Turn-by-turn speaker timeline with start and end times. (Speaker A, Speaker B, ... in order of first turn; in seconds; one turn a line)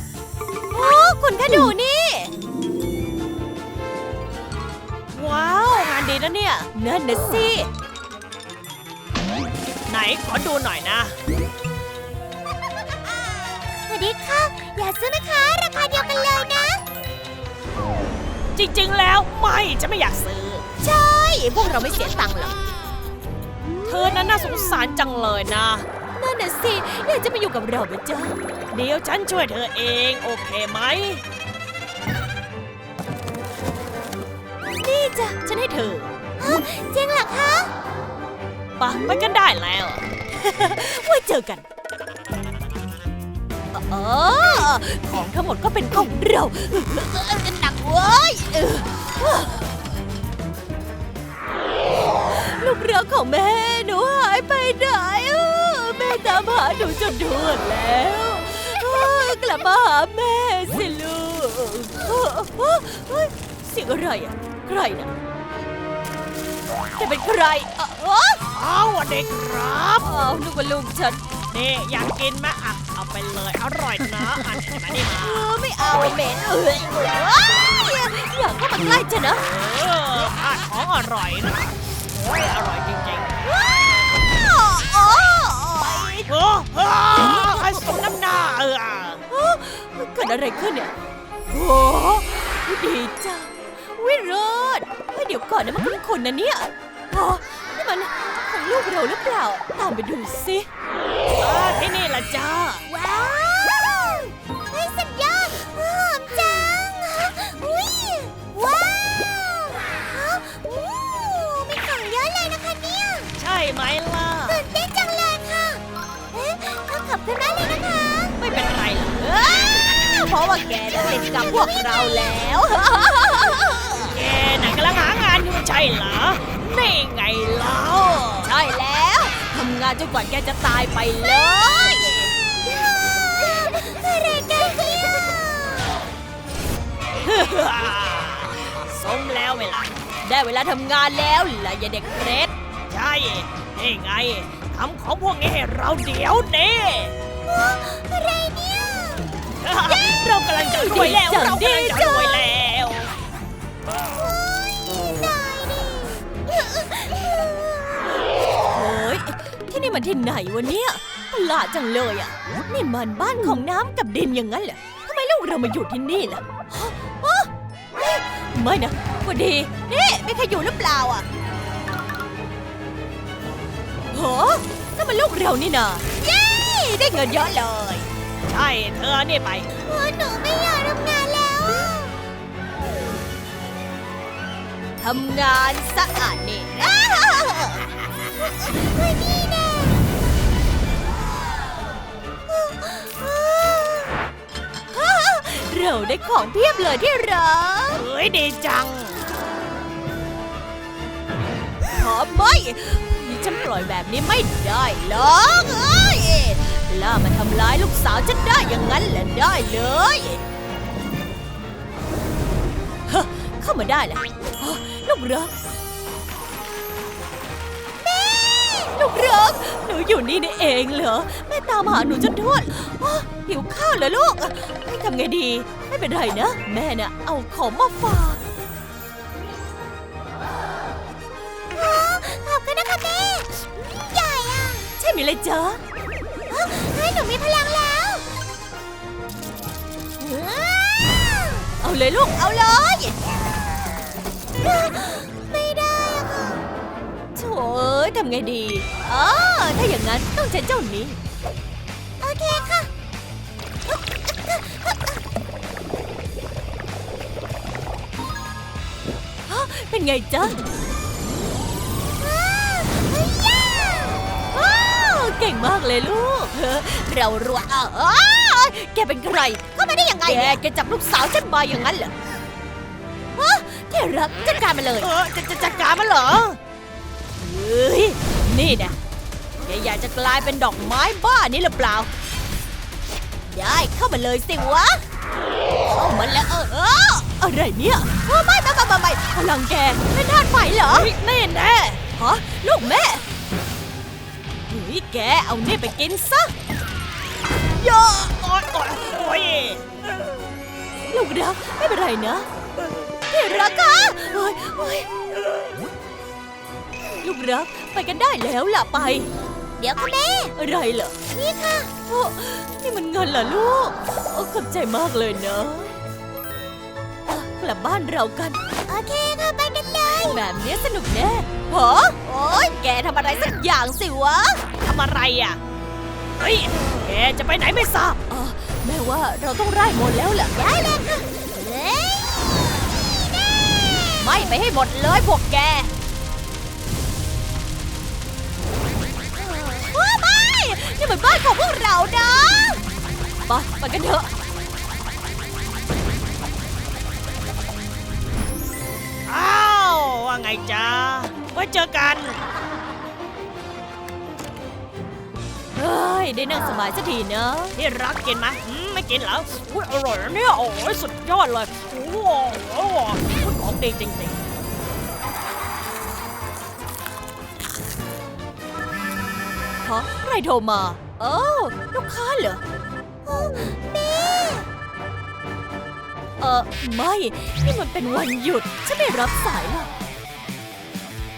Speaker A: 0.7-2.3
Speaker B: 5.1-6.5
Speaker A: 6.4-7.7
Speaker B: 9.9-11.2
Speaker C: 13.1-16.8
Speaker B: 18.6-20.6
Speaker A: 20.8-22.6
Speaker B: 23.9-25.9
Speaker A: 26.2-28.4
Speaker B: 28.7-31.2
Speaker A: 34.8-36.1
Speaker C: 36.4-37.7
Speaker B: 38.8-40.0
Speaker A: 40.3-41.6
Speaker A: 43.7-49.7
Speaker A: 52.3-65.1
Speaker A: 67.0-68.4
Speaker B: 68.5-70.1
Speaker A: 70.0-71.2
Speaker B: 71.5-75.5
Speaker A: 75.1-79.5
Speaker B: 79.4-83.4
Speaker A: 83.5-86.3
Speaker B: 86.3-89.2
Speaker A: 87.2-87.9
Speaker A: 89.3-90.9
Speaker A: 91.5-100.7
Speaker B: 101.4-102.9
Speaker C: 102.9-113.3
Speaker B: 113.4-114.6
Speaker C: 114.5-118.4
Speaker B: 118.4-119.4
Speaker A: 119.0-124.2
Speaker B: 124.1-128.5
Speaker A: 128.4-132.3
Speaker C: 132.8-136.1
Speaker B: 137.2-139.9
Speaker A: 140.2-142.5
Speaker B: 142.9-147.2
Speaker C: 147.4-149.7
Speaker B: 149.5-153.1
Speaker A: 150.6-152.3
Speaker C: 154.2-158.3
Speaker A: 158.6-171.3
Speaker A: 174.1-178.1
Speaker B: 178.5-179.7
Speaker C: 179.8-182.2
Speaker A: 185.0-187.9
Speaker C: 188.4-190.1
Speaker A: 192.8-194.1
Speaker A: 194.9-198.1
Speaker B: 197.9-199.2
Speaker A: 201.9-210.4
Speaker A: 213.1-215.5
Speaker C: 218.2-218.4
Speaker A: 218.5-228.4
Speaker C: 231.7-234.9
Speaker A: 235.0-235.8
Speaker C: 236.5-238.3
Speaker A: 240.2-240.6
Speaker C: 240.6-241.6
Speaker A: 241.8-243.2
Speaker C: 244.6-246.7
Speaker A: 247.3-251.2
Speaker C: 252.2-252.9
Speaker C: 253.9-255.2
Speaker A: 259.5-260.7
Speaker C: 262.2-264.4
Speaker A: 264.5-272.1
Speaker C: 269.9-270.6
Speaker A: 273.4-275.1
Speaker B: 275.0-276.6
Speaker A: 277.4-279.0
Speaker A: 279.6-282.1
Speaker A: 283.5-285.0
Speaker A: 285.8-291.2
Speaker B: 290.9-292.0
Speaker A: 292.0-293.2
Speaker A: 294.7-296.5
Speaker B: 297.8-299.9
Speaker A: 301.1-302.5
Speaker A: 303.3-305.1
Speaker A: 307.2-309.3
Speaker C: 309.8-310.5
Speaker A: 310.6-311.2
Speaker C: 311.3-311.9
Speaker A: 312.1-315.9
Speaker A: 317.3-318.6
Speaker C: 318.9-320.4
Speaker A: 320.2-324.6
Speaker B: 324.8-325.6
Speaker B: 326.4-328.2
Speaker A: 328.3-330.6
Speaker C: 330.5-334.3
Speaker A: 334.2-335.9
Speaker A: 339.4-342.8
Speaker A: 343.5-344.3
Speaker B: 349.3-352.4
Speaker A: 355.8-357.8
Speaker B: 357.8-364.4
Speaker A: 369.8-372.6
Speaker C: 373.2-374.7
Speaker A: 376.4-379.9